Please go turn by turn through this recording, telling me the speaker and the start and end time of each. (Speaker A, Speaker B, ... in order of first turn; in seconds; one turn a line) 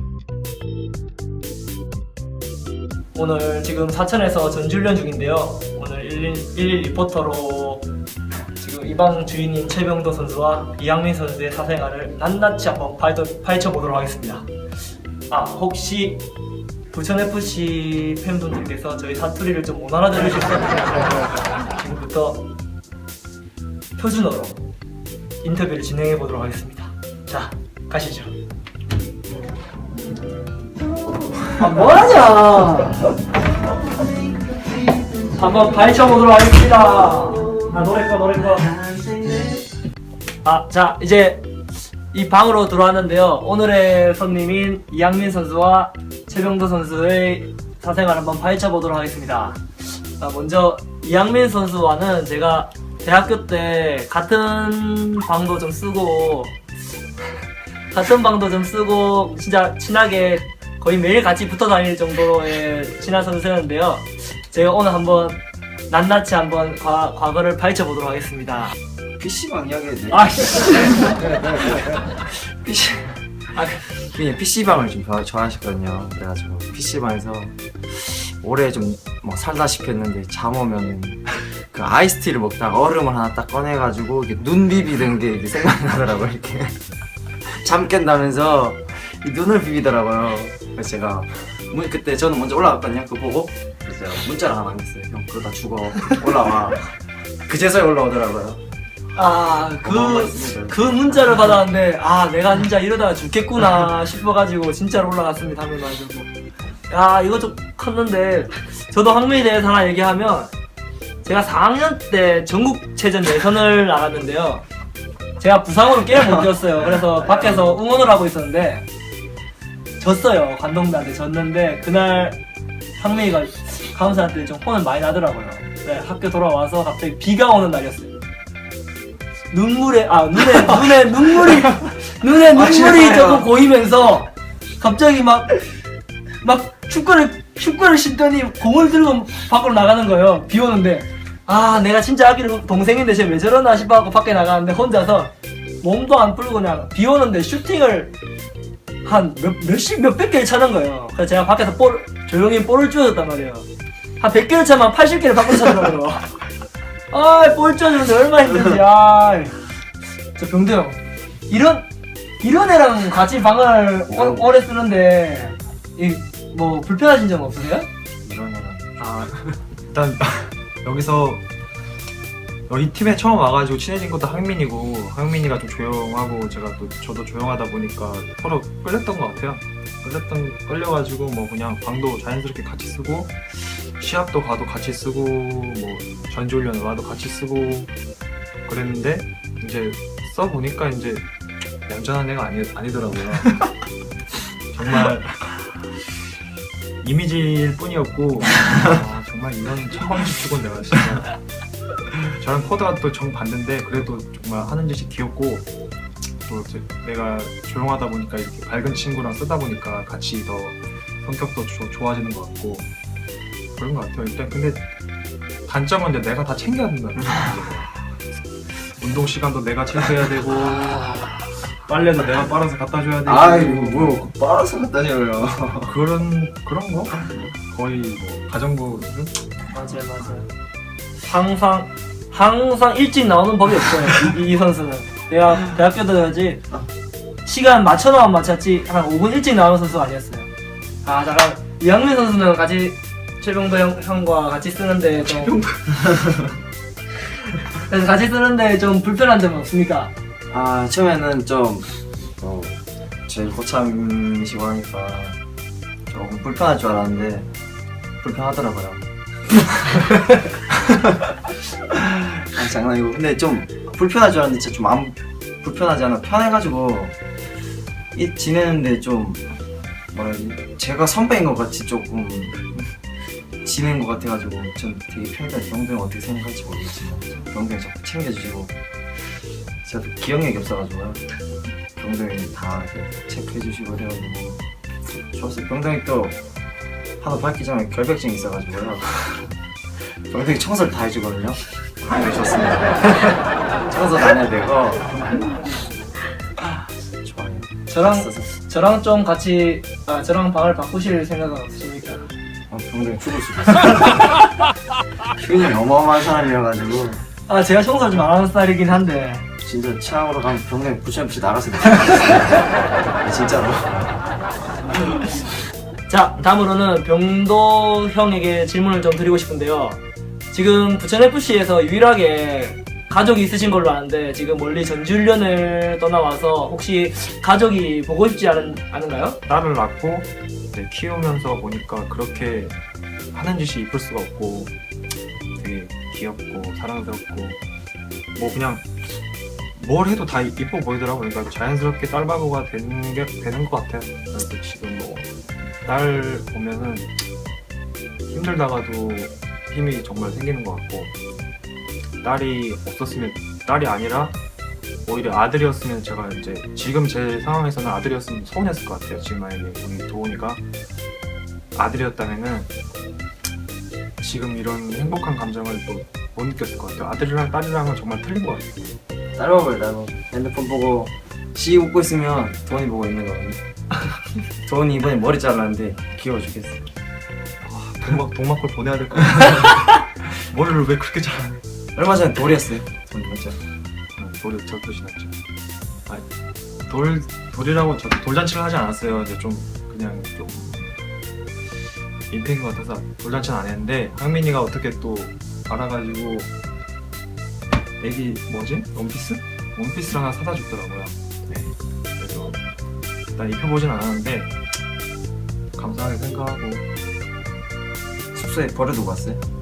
Speaker A: 3.1-7.9
Speaker A: 8.6-14.5
Speaker A: 15.3-16.3
Speaker A: 16.9-22.5
Speaker A: 24.0-24.7
Speaker A: 25.4-28.4
Speaker A: 31.5-33.2
Speaker A: 35.3-38.8
Speaker B: 39.0-39.4
Speaker A: 40.4-41.5
Speaker A: 42.1-49.6
Speaker A: 50.2-56.6
Speaker A: 57.9-68.8
Speaker B: 69.2-73.2
Speaker A: 70.1-71.2
Speaker A: 73.5-73.9
Speaker B: 74.0-86.8
Speaker B: 87.5-98.6
Speaker A: 99.1-106.3
Speaker B: 99.8-101.3
Speaker A: 106.9-110.5
Speaker A: 111.2-114.7
Speaker A: 115.4-118.9
Speaker B: 117.3-117.7
Speaker A: 120.0-122.4
Speaker A: 123.0-128.2
Speaker A: 129.5-135.6
Speaker B: 132.6-133.5
Speaker A: 136.4-148.2
Speaker A: 149.0-153.7
Speaker A: 154.2-156.4
Speaker A: 157.1-159.6
Speaker A: 160.4-161.9
Speaker A: 162.4-167.9
Speaker B: 164.1-164.4
Speaker B: 168.2-169.0
Speaker C: 169.0-171.4
Speaker C: 172.7-187.9
Speaker C: 188.7-191.3
Speaker C: 191.9-193.6
Speaker C: 194.7-195.7
Speaker C: 197.0-201.4
Speaker C: 202.2-205.7
Speaker C: 206.5-212.9
Speaker C: 213.8-214.9
Speaker C: 215.7-218.0
Speaker C: 218.8-224.3
Speaker B: 223.2-225.9
Speaker C: 225.8-229.4
Speaker A: 229.7-230.5
Speaker A: 231.2-236.6
Speaker A: 237.4-240.5
Speaker A: 241.0-245.6
Speaker C: 245.3-245.9
Speaker B: 245.9-246.5
Speaker A: 247.8-250.1
Speaker B: 250.5-251.9
Speaker B: 252.4-255.4
Speaker B: 256.1-257.5
Speaker B: 258.2-261.2
Speaker B: 261.9-267.1
Speaker B: 268.1-269.5
Speaker B: 270.1-272.9
Speaker B: 273.6-278.7
Speaker B: 279.9-281.2
Speaker B: 282.0-284.6
Speaker B: 285.2-286.4
Speaker B: 287.2-289.5
Speaker B: 290.0-293.3
Speaker B: 293.9-295.1
Speaker B: 297.2-298.5
Speaker A: 297.9-302.3
Speaker B: 302.7-304.4
Speaker B: 305.4-307.2
Speaker A: 307.5-309.5
Speaker B: 309.6-314.2
Speaker A: 316.1-320.0
Speaker A: 320.5-329.4
Speaker C: 329.5-332.8
Speaker C: 333.3-334.7
Speaker C: 335.6-337.6
Speaker C: 338.4-338.9
Speaker C: 339.8-345.3
Speaker C: 345.8-347.1
Speaker C: 348.3-351.1
Speaker C: 352.2-354.4
Speaker C: 355.1-360.6
Speaker C: 361.8-362.7
Speaker C: 364.2-368.8
Speaker B: 369.4-373.6
Speaker B: 374.6-376.8
Speaker C: 377.6-381.6
Speaker B: 381.9-383.6
Speaker C: 384.2-385.4
Speaker C: 386.9-390.9
Speaker C: 392.3-396.5
Speaker C: 398.0-402.6
Speaker C: 403.4-404.5
Speaker C: 405.8-406.9
Speaker B: 408.3-409.4